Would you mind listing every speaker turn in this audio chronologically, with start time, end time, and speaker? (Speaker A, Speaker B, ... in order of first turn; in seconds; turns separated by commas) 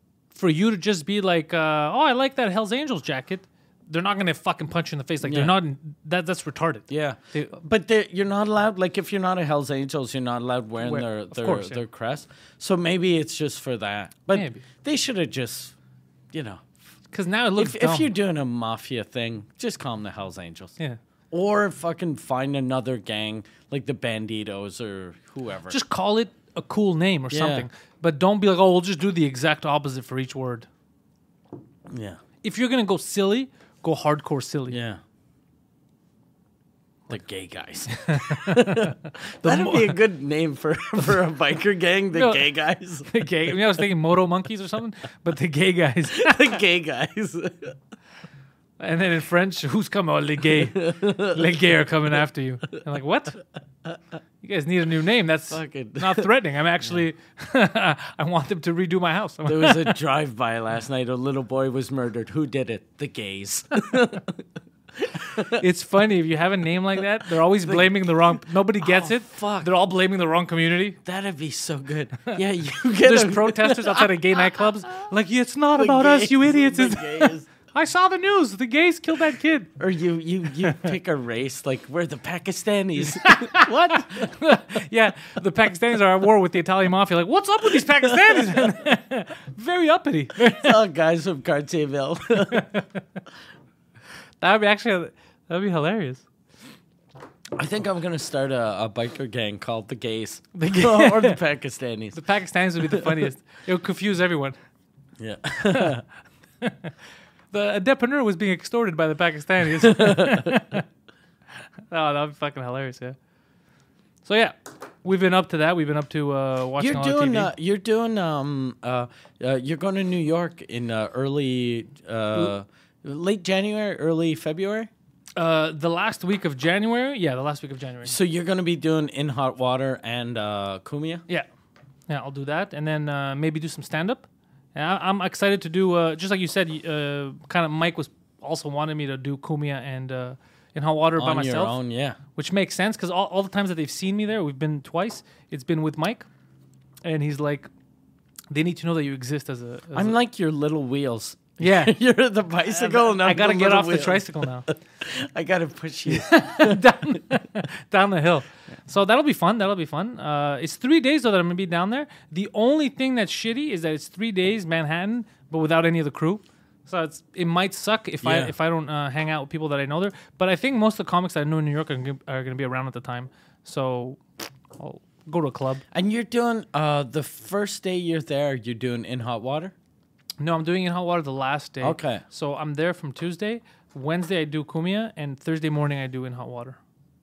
Speaker A: 0.3-7.5, Speaker B: 5.2-5.6, Speaker B: 6.9-15.8, Speaker A: 10.8-11.8, Speaker A: 14.3-14.7, Speaker B: 16.3-16.6, Speaker A: 17.1-18.1, Speaker B: 17.6-20.7, Speaker B: 21.3-25.8, Speaker A: 25.7-30.7, Speaker B: 27.3-27.7, Speaker B: 31.9-32.2, Speaker A: 32.4-34.8, Speaker B: 34.7-35.0, Speaker B: 37.1-43.1, Speaker A: 37.9-40.0, Speaker A: 42.1-42.5, Speaker A: 43.1-46.5, Speaker B: 46.1-47.8, Speaker A: 48.8-53.4, Speaker B: 50.5-51.4, Speaker A: 54.4-60.0, Speaker B: 55.5-56.3, Speaker B: 59.5-64.4, Speaker B: 65.0-65.6, Speaker A: 65.5-71.0, Speaker B: 67.6-69.7, Speaker B: 71.0-74.2, Speaker A: 73.0-79.7, Speaker B: 75.8-77.5, Speaker B: 79.8-84.3, Speaker A: 83.0-90.8, Speaker B: 88.1-88.6, Speaker B: 90.4-92.7, Speaker A: 92.5-93.0, Speaker A: 94.4-96.2, Speaker B: 97.6-102.2, Speaker A: 100.5-101.4, Speaker A: 102.2-104.6, Speaker B: 102.9-103.2, Speaker B: 105.2-106.0, Speaker A: 105.6-105.9, Speaker A: 106.6-106.9, Speaker A: 107.5-110.8, Speaker B: 109.8-110.6, Speaker A: 111.9-113.2, Speaker A: 114.2-117.5, Speaker B: 116.8-124.9, Speaker A: 125.4-128.2, Speaker B: 128.0-131.2, Speaker A: 132.1-141.8, Speaker B: 141.2-142.2, Speaker A: 142.3-146.3, Speaker A: 147.1-147.7, Speaker A: 148.5-150.2, Speaker B: 149.9-156.8, Speaker A: 151.6-151.9, Speaker A: 152.7-154.7, Speaker A: 156.1-174.2, Speaker B: 168.2-168.5, Speaker A: 174.8-175.8, Speaker B: 175.9-179.7, Speaker A: 180.4-186.8, Speaker B: 181.8-182.2